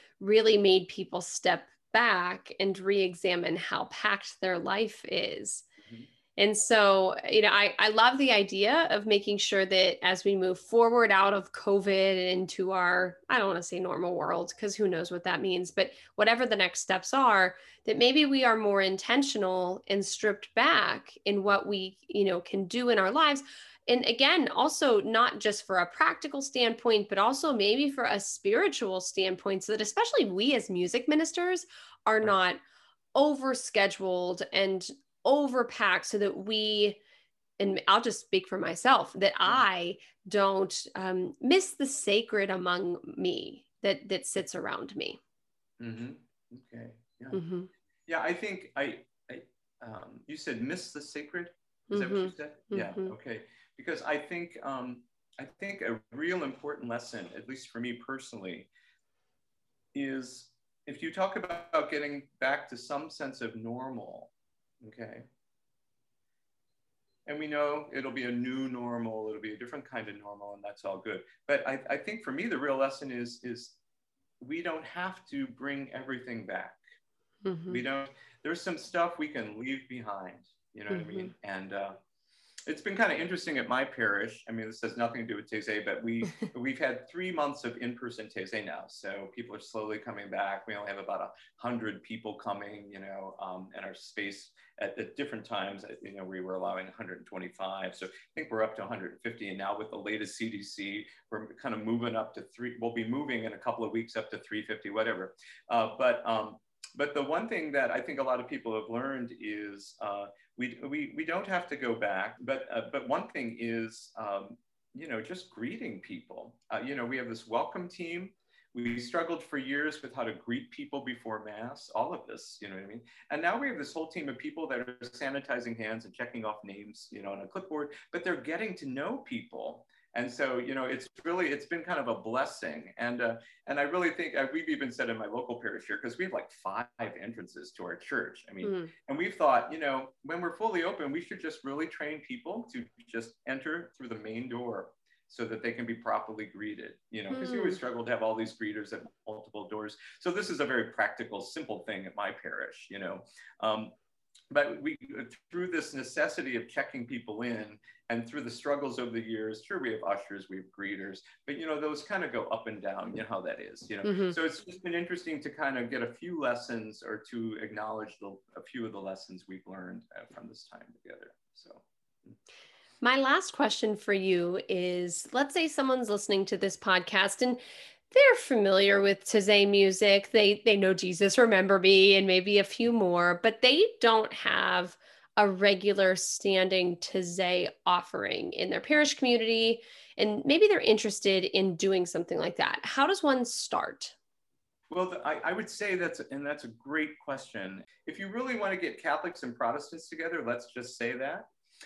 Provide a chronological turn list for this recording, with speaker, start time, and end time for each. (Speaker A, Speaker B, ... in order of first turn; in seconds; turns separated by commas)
Speaker A: 0.2-5.6, Speaker B: 5.8-6.1, Speaker A: 6.4-32.6, Speaker A: 33.1-37.0, Speaker A: 37.6-45.2, Speaker B: 45.8-47.4, Speaker A: 47.3-47.7, Speaker B: 48.1-58.7, Speaker A: 51.9-53.1, Speaker B: 59.9-65.2, Speaker B: 67.2-73.8, Speaker B: 74.4-76.8, Speaker A: 77.4-77.8, Speaker B: 77.7-82.0, Speaker A: 80.9-81.3, Speaker B: 82.7-153.9, Speaker A: 138.6-138.9, Speaker A: 147.3-147.8, Speaker B: 154.5-172.3, Speaker A: 164.0-164.4, Speaker A: 173.0-177.6, Speaker A: 178.1-194.1, Speaker B: 194.9-201.5